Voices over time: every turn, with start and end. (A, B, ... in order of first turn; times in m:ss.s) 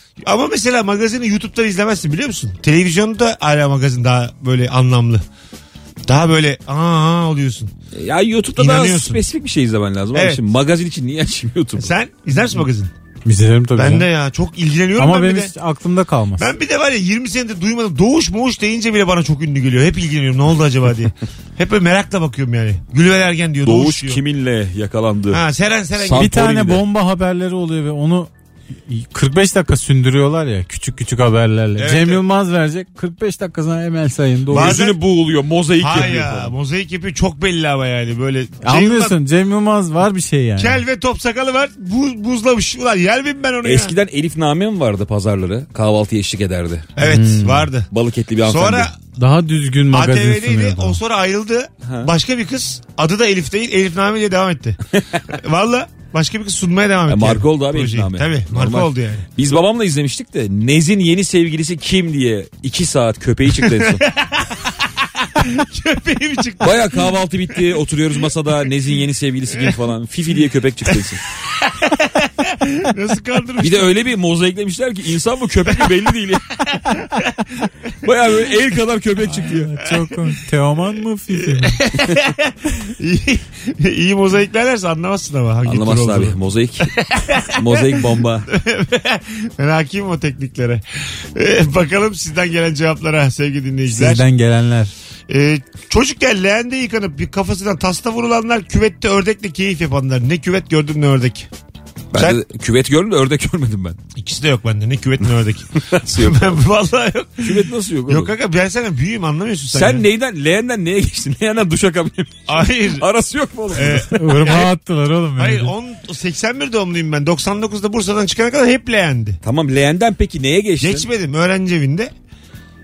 0:00.2-0:05.2 A
0:06.1-0:07.7 A
0:07.9-0:11.9 B
0:08.6-0:09.2 A
0:10.1-0:10.4 A
0:11.8-0:12.9 A
0:13.3-0:14.1 C
0:13.8-0:15.5 A
0:15.0-0:16.5 C
0:16.4-0:24.2 A
0:23.6-0:25.4 B
0:25.3-0:26.3 A
0:26.0-0:26.8 B
0:26.1-0:28.3 C
0:28.9-0:34.8 C
0:31.8-0:32.2 A
0:34.5-0:35.0 A
0:34.5-0:36.6 B
0:35.8-0:39.2 A
0:38.6-0:40.8 C
0:40.6-0:44.0 A
0:43.6-0:46.9 B
0:47.0-0:47.9 A
0:47.0-0:47.7 C
0:47.9-0:48.9 B
0:48.5-0:49.0 A
0:49.2-0:51.0 C
0:49.9-0:59.3 A
0:51.8-0:52.1 B
0:54.9-0:55.2 B
0:57.1-1:04.1 B
1:03.6-1:07.1 A
1:06.6-1:11.2 B
1:11.6-1:14.0 A
1:13.6-1:16.5 B
1:16.9-1:17.4 A
1:18.0-1:19.7 B
1:19.5-1:20.2 A
1:19.7-1:21.8 C
1:21.5-1:30.8 A
1:25.6-1:26.9 B
1:27.4-1:28.5 B
1:31.4-1:34.2 A
1:33.9-1:34.9 C
1:35.3-1:41.5 A
1:42.1-1:44.0 B
1:42.1-1:42.4 A
1:44.2-1:50.1 A
1:45.8-1:46.6 B
1:47.4-1:48.3 B
1:49.7-1:54.1 B
1:52.5-1:53.1 A
1:53.7-1:54.7 A
1:54.1-1:55.7 C
1:55.4-1:59.4 A
1:59.4-2:01.1 B
2:00.8-2:02.1 A